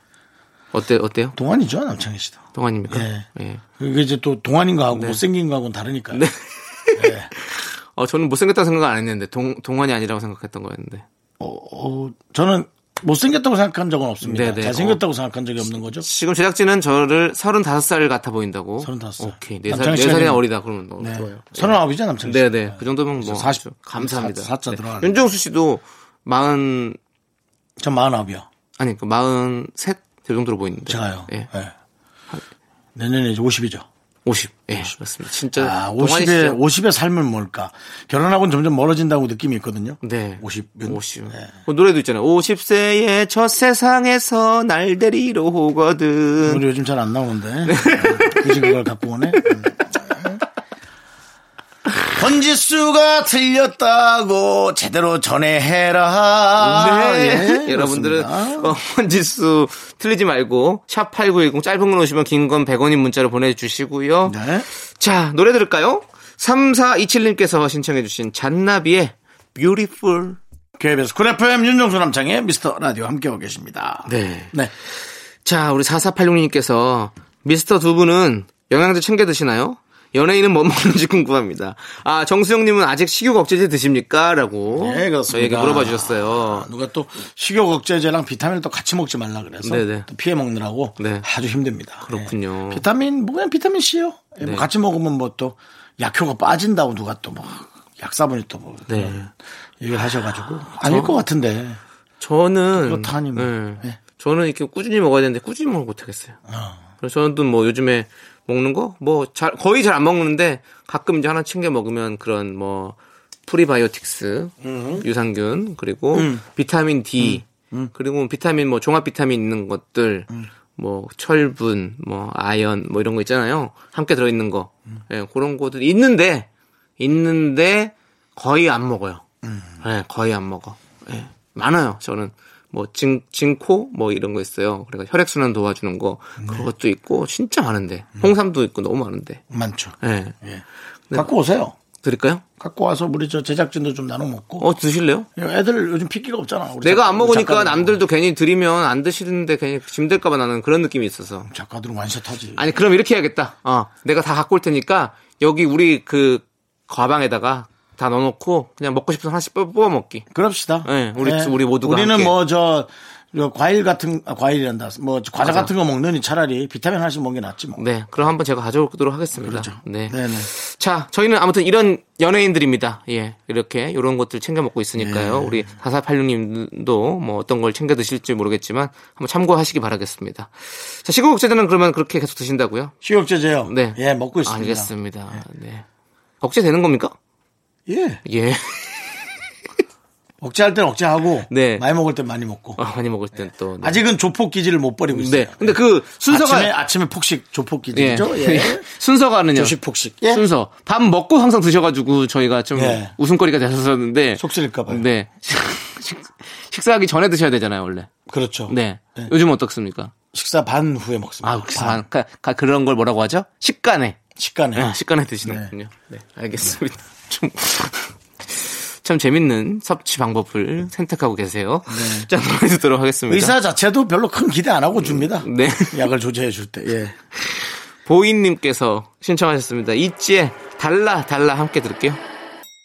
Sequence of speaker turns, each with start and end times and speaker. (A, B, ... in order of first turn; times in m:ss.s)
0:00.7-0:01.4 A
0:01.4-0:03.3 B
0:02.5-0:03.6 A
0:03.8-0:06.2 B
0:04.9-0:05.2 A
0:06.1-0:11.0 A
0:07.0-0:07.3 B
0:11.4-0:16.1 B
0:14.2-0:15.0 A
0:16.0-0:27.0 A
0:18.8-0:20.4 B
0:21.0-0:25.2 B
0:27.8-0:28.5 B
0:28.8-0:31.5 A
0:30.9-0:31.7 B
0:32.9-0:33.8 B
0:34.2-0:36.6 A
0:35.5-0:41.5 B
0:40.0-0:46.6 A
0:46.4-0:50.4 B
0:47.6-0:48.8 A
0:49.4-0:49.8 A
0:52.1-0:58.7 B
0:56.6-1:04.4 A
1:04.2-1:04.7 B
1:04.9-1:10.4 A
1:10.8-1:14.7 B
1:14.0-1:14.5 A
1:15.4-1:26.7 A
1:24.7-1:39.3 B
1:29.6-1:30.1 A
1:31.0-1:31.2 A
1:32.0-1:32.8 A
1:34.4-1:34.7 A
1:38.9-1:39.3 A
1:39.8-1:41.8 B
1:40.8-1:41.2 A
1:42.2-1:46.4 A
1:42.7-1:44.0 B
1:46.5-1:46.8 B
1:47.0-2:06.5 A
1:54.6-1:55.0 B
1:56.1-1:56.4 B
1:57.2-1:57.9 B
2:07.0-2:09.2 A
2:09.4-2:09.7 B
2:09.8-2:19.4 A
2:16.4-2:16.7 B
2:19.5-2:21.7 B
2:20.0-2:20.3 A
2:22.0-2:22.4 A
2:22.6-2:24.7 B
2:24.6-2:25.3 A
2:25.4-2:28.0 B
2:26.8-2:31.5 A
2:31.5-2:32.6 B
2:32.6-2:40.2 A
2:40.3-2:47.8 B
2:40.8-2:42.4 A
2:45.4-2:45.7 A
2:47.8-3:02.9 A
2:49.3-2:50.5 B
2:55.0-2:55.7 B
3:03.0-3:04.9 B
3:03.6-3:05.8 A
3:06.4-3:07.1 A
3:07.9-3:08.2 B
3:08.2-3:09.1 A
3:10.4-3:12.8 B
3:11.5-3:11.8 A
3:12.8-3:14.0 A
3:13.8-3:18.8 B
3:15.1-3:16.7 A
3:17.9-3:19.7 A
3:19.5-3:20.4 B
3:20.3-3:28.1 A
3:22.7-3:23.1 B
3:24.4-3:25.0 B
3:28.3-3:29.3 B
3:28.7-3:30.1 A
3:30.3-3:32.0 B
3:31.4-3:34.2 A
3:34.4-3:35.7 B
3:34.7-3:43.5 A
3:41.9-3:42.3 B
3:43.3-3:47.2 B
3:45.0-3:46.1 A
3:47.5-3:52.2 A